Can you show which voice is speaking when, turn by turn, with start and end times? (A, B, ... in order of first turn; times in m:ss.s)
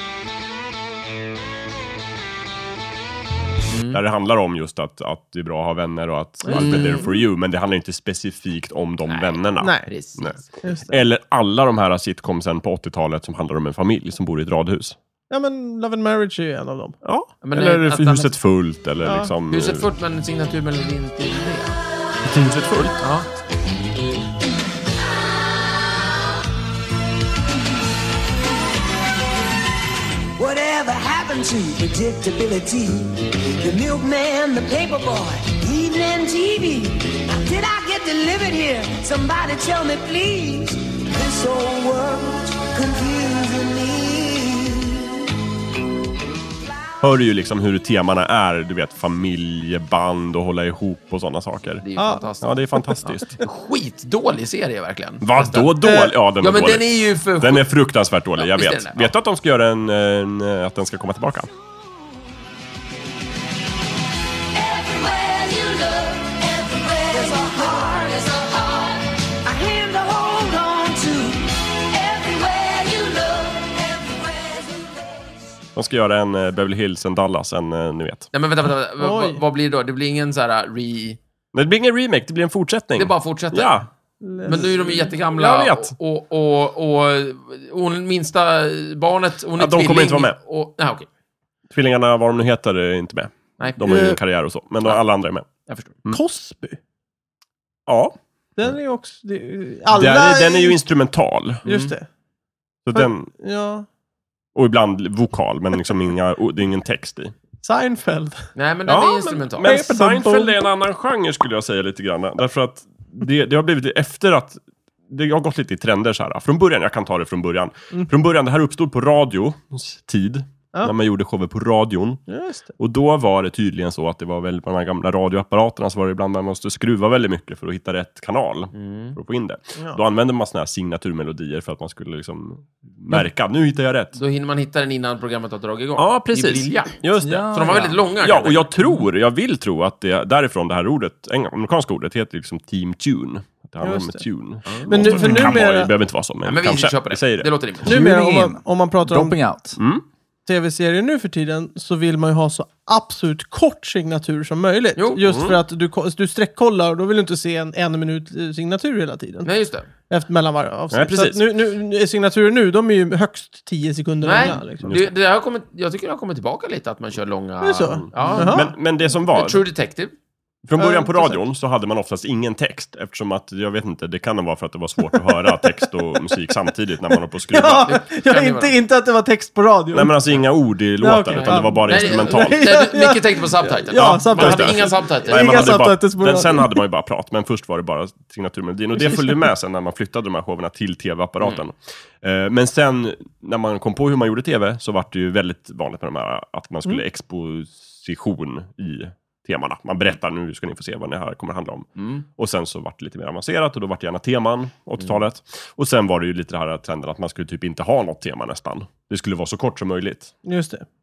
0:03.7-0:04.0 A
0:03.9-0:10.4 B
0:06.4-0:07.1 C
0:06.5-0:07.1 A
0:09.1-0:10.5 A
0:09.6-0:09.9 C
0:10.6-0:10.9 C
0:10.9-0:15.0 B
0:15.3-0:17.0 C
0:17.0-0:19.9 B
0:17.4-0:18.3 A
0:19.0-0:19.3 C
0:19.5-0:21.8 A
0:22.2-0:23.0 B
0:23.0-0:23.3 A
0:30.4-0:45.1 D
0:47.0-0:51.8 B
0:51.8-0:55.8 A
0:52.0-0:53.0 C
0:52.4-0:53.4 B
0:55.2-1:01.5 B
0:55.8-0:56.1 C
0:56.4-0:57.7 A
0:58.4-0:59.1 A
1:04.5-1:15.3 D
1:15.7-1:18.3 B
1:18.3-1:21.2 A
1:19.0-1:19.4 C
1:21.5-1:23.9 B
1:23.0-1:23.8 A
1:24.2-1:25.1 C
1:24.4-1:31.1 A
1:24.5-1:25.9 B
1:29.6-1:30.4 B
1:31.7-1:35.4 B
1:33.8-1:34.2 C
1:35.6-1:36.0 A
1:36.1-1:36.8 C
1:37.9-1:38.7 B
1:38.6-1:40.8 C
1:39.9-1:41.6 B
1:41.6-1:41.9 A
1:41.6-1:42.1 C
1:42.8-1:43.3 B
1:42.9-1:43.8 C
1:44.5-1:47.3 B
1:47.6-1:48.5 C
1:48.5-1:49.7 A
1:48.9-2:02.2 B
1:49.6-1:50.7 C
2:02.3-2:02.7 C
2:02.8-2:14.2 B
2:08.7-2:09.2 A
2:14.1-2:18.7 A
2:16.0-2:27.5 B
2:17.2-2:18.0 E
2:23.8-2:24.2 C
2:24.7-2:25.5 A
2:24.8-2:25.9 C
2:26.4-2:27.9 A
2:27.8-2:29.4 C
2:27.8-2:29.8 E
2:29.8-2:30.0 B
2:30.4-2:44.9 C
2:35.2-2:35.6 B
2:39.4-2:39.9 A
2:40.9-2:41.4 B
2:44.2-2:50.1 A
2:44.8-2:45.1 B
2:47.6-2:48.7 C
2:47.9-2:49.6 B
2:50.6-2:58.0 B
2:50.8-2:51.4 C
2:55.1-2:56.4 C
2:57.5-3:00.2 C
2:57.8-2:58.7 A
2:59.9-3:02.7 B
3:01.0-3:06.8 C
3:01.3-3:05.8 A
3:03.9-3:30.3 B
3:08.9-3:09.4 C
3:22.0-3:22.2 A
3:30.4-3:30.8 C